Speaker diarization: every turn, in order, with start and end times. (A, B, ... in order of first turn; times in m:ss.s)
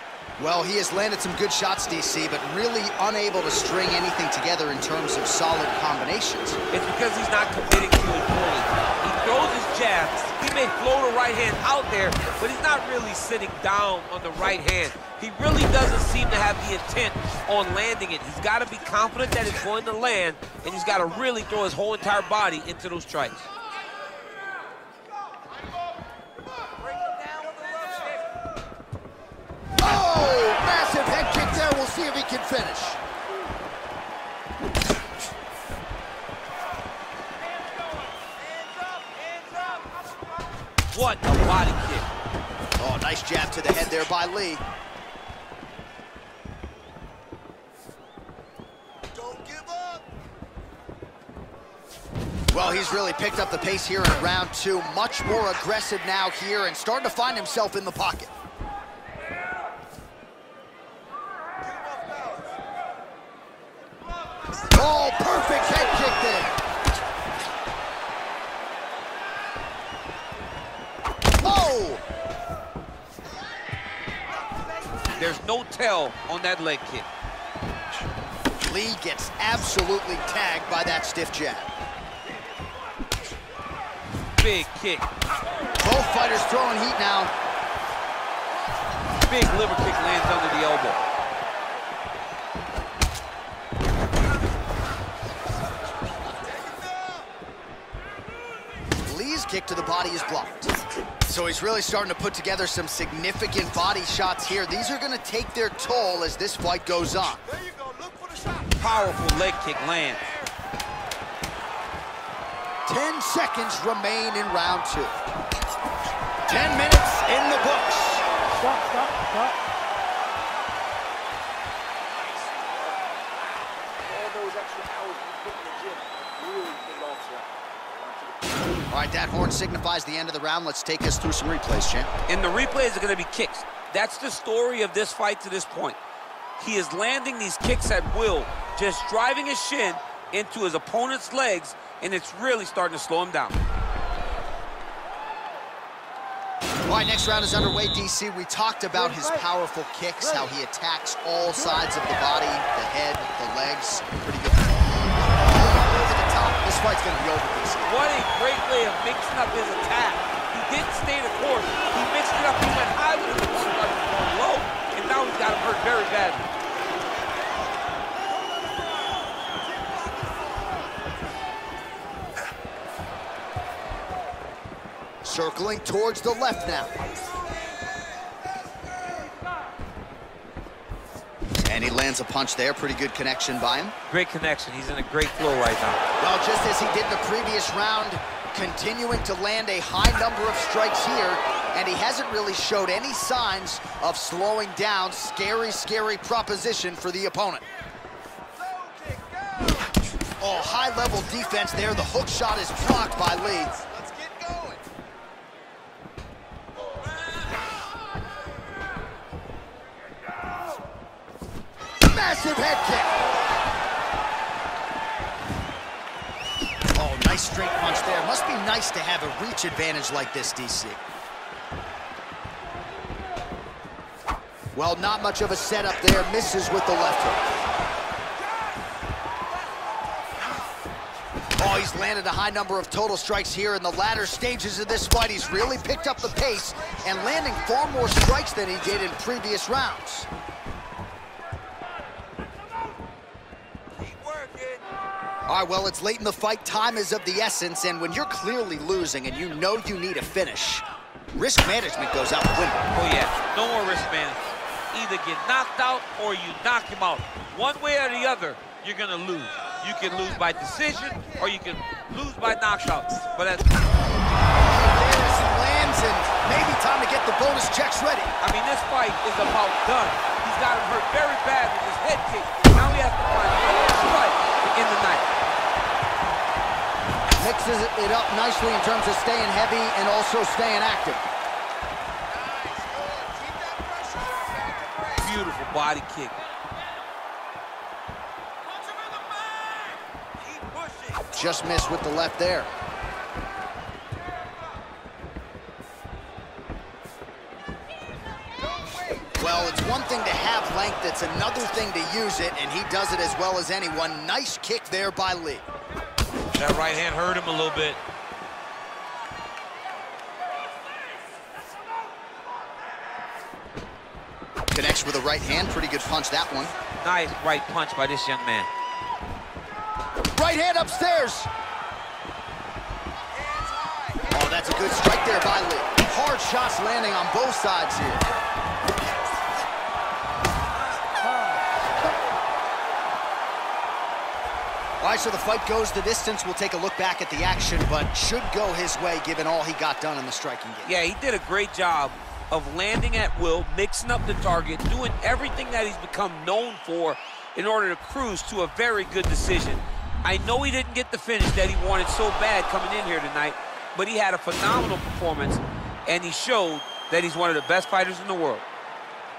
0:00.4-0:06.6 A
0:06.7-0:23.5 B
0:27.2-0:28.1 C
0:29.8-0:33.0 A
0:40.9-0:42.1 B
0:42.8-0:44.6 A
0:49.1-0:50.0 C
0:52.5-0:58.3 A
1:01.6-1:02.5 C
1:04.7-1:06.6 A
1:11.4-1:12.0 A
1:15.1-1:17.1 B
1:18.6-1:21.7 A
1:24.4-1:25.1 B
1:25.8-1:27.3 A
1:29.2-1:31.0 B
1:39.0-1:40.7 A
1:41.2-1:47.4 A
1:47.6-1:48.7 C
1:48.8-1:50.3 B
1:52.9-1:55.1 A
1:56.5-1:58.2 A
1:58.6-1:59.0 C
2:02.4-2:03.1 C
2:04.0-2:08.6 C
2:08.9-2:12.1 A
2:12.3-2:16.0 B
2:16.6-2:23.6 B
2:26.9-2:34.8 A
2:35.4-2:37.9 A
2:37.8-2:46.5 B
2:55.2-2:56.9 A
3:01.6-3:03.9 A
3:04.1-3:06.0 B
3:06.2-3:17.6 A
3:18.6-3:19.9 C
3:20.4-3:23.8 A
3:23.8-3:24.8 C
3:32.0-3:33.2 A
3:36.9-3:41.0 A
3:44.7-3:47.4 A
3:49.6-3:50.7 C
3:51.6-4:00.3 A
4:05.5-4:12.8 A
4:12.9-4:23.7 B
4:24.6-4:28.3 A
4:28.4-4:35.3 B
4:37.4-4:41.3 A
4:42.3-4:45.2 C
4:45.2-4:46.4 B
4:51.3-4:52.7 A
4:58.6-4:59.3 C
4:59.4-5:05.6 A
5:06.6-5:08.0 B
5:14.7-5:16.7 A
5:17.0-5:18.7 B
5:20.3-5:21.5 A
5:23.4-5:24.2 C
5:24.3-5:28.2 A
5:35.0-5:40.9 A
5:40.8-5:58.6 B